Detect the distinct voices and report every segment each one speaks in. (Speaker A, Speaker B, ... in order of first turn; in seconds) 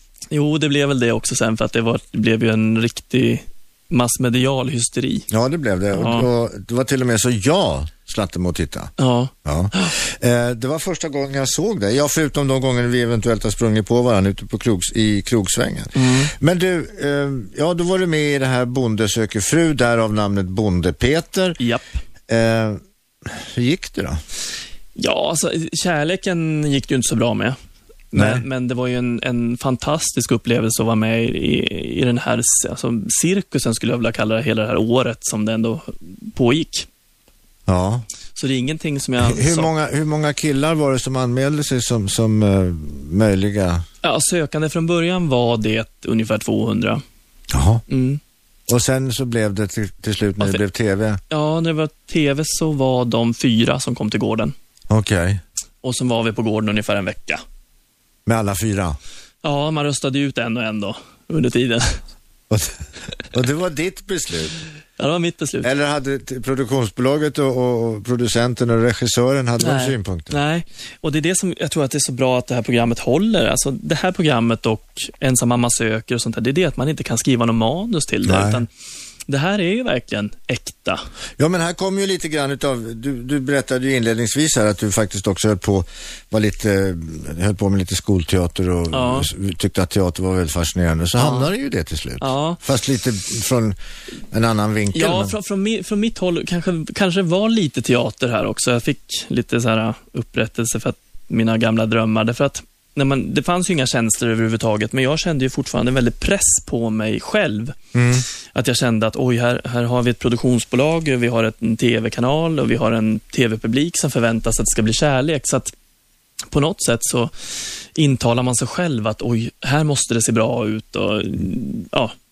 Speaker A: 0.3-5.3, 5.9-6.3, 9.0-9.9, 15.9-16.3, 21.6-21.9, 25.0-27.6, 28.1-36.9, 38.4-39.7, 44.0-47.0, 47.9-48.2, 51.3-54.5, 55.8-57.4, 59.4-62.0, 65.0-65.7, 69.6-78.7, 79.3-81.0, 88.9-89.3, 91.2-91.5, 92.2-92.6, 94.9-107.8, 108.5-115.7, 116.5-117.3, 118.0-122.1
Speaker B: 5.3-8.9, 9.4-21.6, 22.3-24.2, 28.1-28.4, 37.7-38.1, 39.2-43.8, 47.5-47.8, 48.7-51.2, 54.9-55.4, 58.3-59.0, 62.5-64.6, 65.6-70.4, 78.2-78.6, 81.4-93.8, 94.3-95.3, 107.9-108.2